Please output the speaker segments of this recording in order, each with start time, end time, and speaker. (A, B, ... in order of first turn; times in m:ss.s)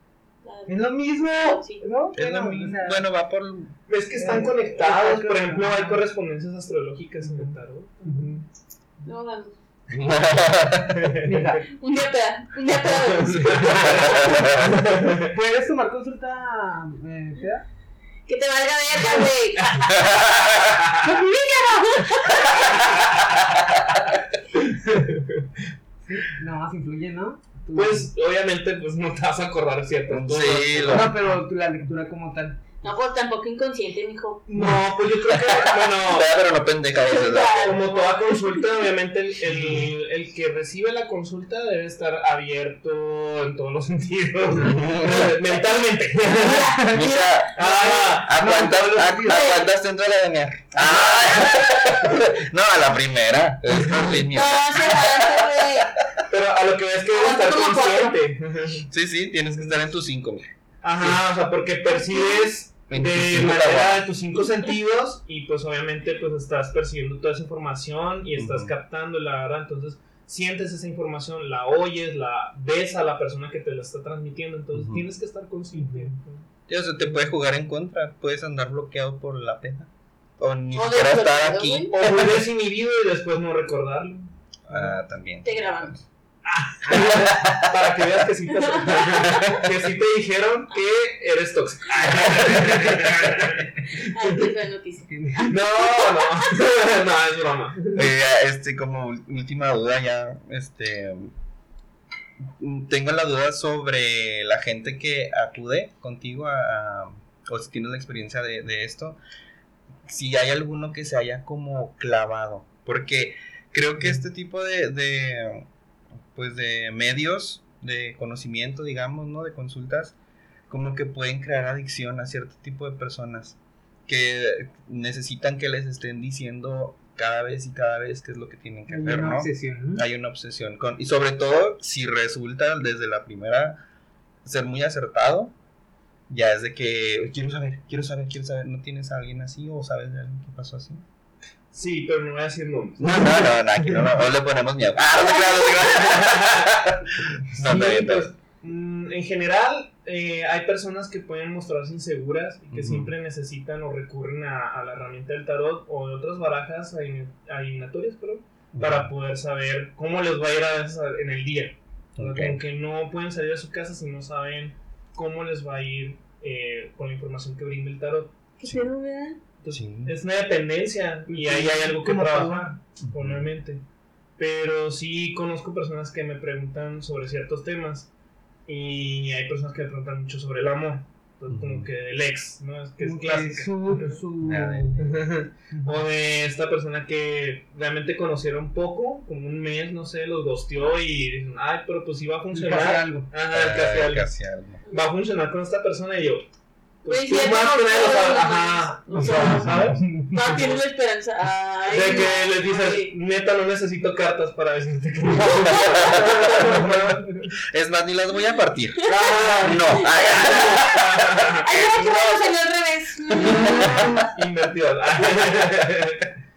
0:00.4-0:01.8 A
0:00.7-0:03.1 B
0:02.1-0:03.8 C
0:03.9-0:08.4 D
0:04.2-0:06.0 B
0:07.2-0:08.4 B
0:09.0-0:09.6 A
0:09.9-0:10.2 B
0:09.9-0:11.2 C
0:11.0-0:11.3 D
0:11.1-0:11.7 B
0:11.6-0:14.4 A
0:13.4-0:15.3 D
0:13.9-0:14.7 C
0:15.2-0:17.6 B
0:18.3-0:22.9 A
0:24.5-0:25.5 D
0:26.0-0:28.1 B
0:27.7-0:31.1 D
0:30.1-0:31.2 C
0:30.9-0:32.6 B
0:32.8-0:34.7 A
0:34.5-0:36.3 D
0:35.3-0:37.8 C
0:36.9-0:38.8 A
0:37.6-0:46.9 D
0:39.5-0:39.8 B
0:44.5-0:45.4 C
0:46.3-0:47.8 A
0:46.4-0:47.1 B
0:46.8-0:55.9 C
0:47.6-0:48.5 D
0:47.6-0:49.6 B
0:49.2-0:49.7 A
0:50.8-0:51.6 D
0:54.1-0:55.9 A
0:56.3-0:58.9 D
0:57.1-0:58.2 A
0:58.9-1:00.5 C
1:00.8-1:16.5 D
1:02.9-1:04.0 C
1:08.4-1:08.7 C
1:14.7-1:15.0 C
1:15.7-1:16.2 B
1:16.7-1:21.9 C
1:20.7-1:22.0 A
1:21.9-1:24.3 D
1:24.7-1:26.0 C
1:25.4-1:26.0 A
1:26.5-1:34.5 D
1:26.8-1:27.3 B
1:26.9-1:27.7 C
1:28.6-1:29.5 A
1:29.4-1:29.7 C
1:32.0-1:33.7 B
1:34.0-1:36.5 A
1:35.1-1:35.6 B
1:35.5-1:38.0 D
1:37.9-1:41.3 C
1:42.4-1:49.2 C
1:50.1-1:55.7 C
1:56.3-2:00.2 C
2:00.7-2:13.8 C
2:08.9-2:10.1 B
2:14.4-2:15.5 C
2:16.3-2:21.0 C
2:21.7-2:24.0 D
2:23.0-2:28.3 C
2:25.5-2:25.8 A
2:26.1-2:26.9 D
2:27.5-2:48.4 D
2:27.6-2:28.0 B
2:32.7-2:33.1 C
2:38.7-2:39.1 C
2:42.2-2:42.6 C
2:48.6-2:49.4 A
2:49.6-2:53.8 D
2:49.7-2:50.1 C
2:51.3-2:52.7 B
2:53.0-2:53.5 C
2:54.4-2:58.1 D
2:58.7-3:04.2 D
3:01.5-3:01.9 C
3:03.0-3:05.2 B
3:04.4-3:05.2 C
3:05.0-3:14.3 D
3:05.7-3:06.0 B
3:12.5-3:13.3 B
3:13.5-3:14.8 C
3:14.8-3:15.1 A
3:14.9-3:16.5 D
3:17.0-3:20.7 D
3:17.1-3:23.1 A
3:19.2-3:20.6 B
3:19.6-3:20.0 C
3:21.9-3:27.5 D
3:25.4-3:26.0 A
3:25.6-3:26.9 C
3:27.7-3:32.4 C
3:29.0-3:34.3 A
3:29.1-3:30.2 D
3:30.7-3:31.6 D
3:33.5-3:34.2 C
3:34.2-3:36.3 D